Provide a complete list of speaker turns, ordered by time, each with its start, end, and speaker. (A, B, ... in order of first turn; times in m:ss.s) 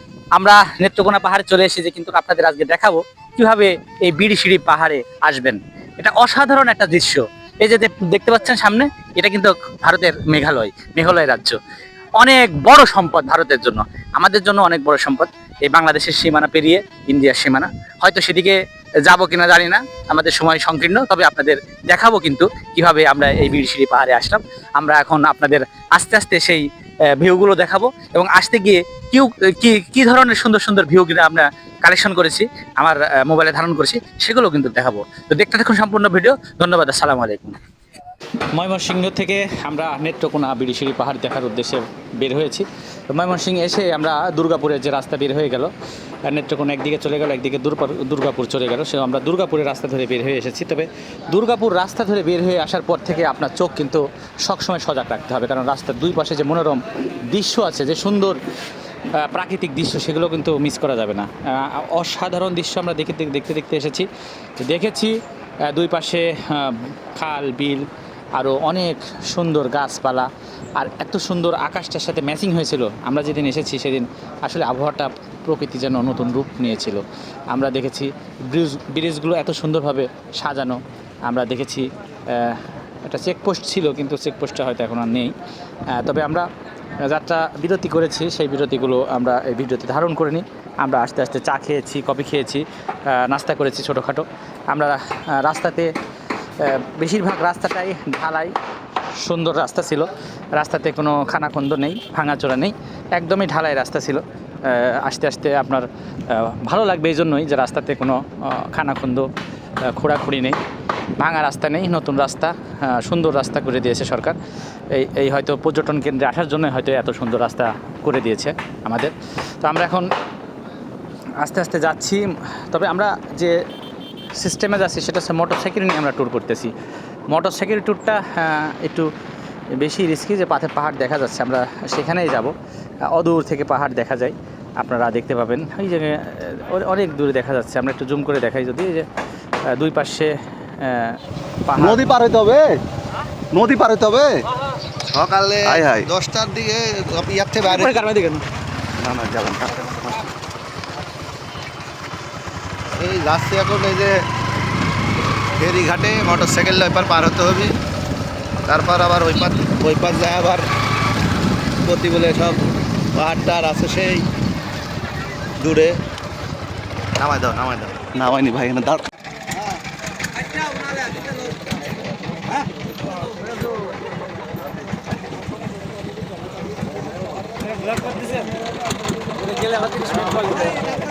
0:00.3-0:11.6 A
0:12.2-0:37.6 A
0:38.5-0:45.7 A
0:46.3-0:58.4 A
0:59.1-1:04.1 A
1:04.6-1:25.3 A
1:25.9-1:26.5 A
1:27.0-1:35.9 A
1:36.6-1:38.5 A
1:39.2-1:49.3 A
1:49.9-1:50.6 A
1:51.2-1:54.4 A
1:54.9-2:00.1 A
2:01.4-2:03.6 A
2:04.4-2:06.7 A
2:07.3-2:09.1 A
2:09.7-2:12.5 A
2:13.1-2:19.1 A
2:19.7-2:22.0 A
2:21.8-2:22.8 B
2:23.5-2:24.4 B
2:25.0-2:28.1 C
2:25.6-2:26.1 B
2:27.6-2:28.4 A
2:29.0-2:29.7 B
2:29.0-2:30.2 C
2:32.9-2:34.2 C
2:35.6-2:37.8 C
2:38.7-2:40.7 C
2:41.8-2:44.3 C
2:45.6-2:46.0 C
2:47.2-2:48.2 C
2:48.1-2:49.1 B
2:59.4-3:00.9 A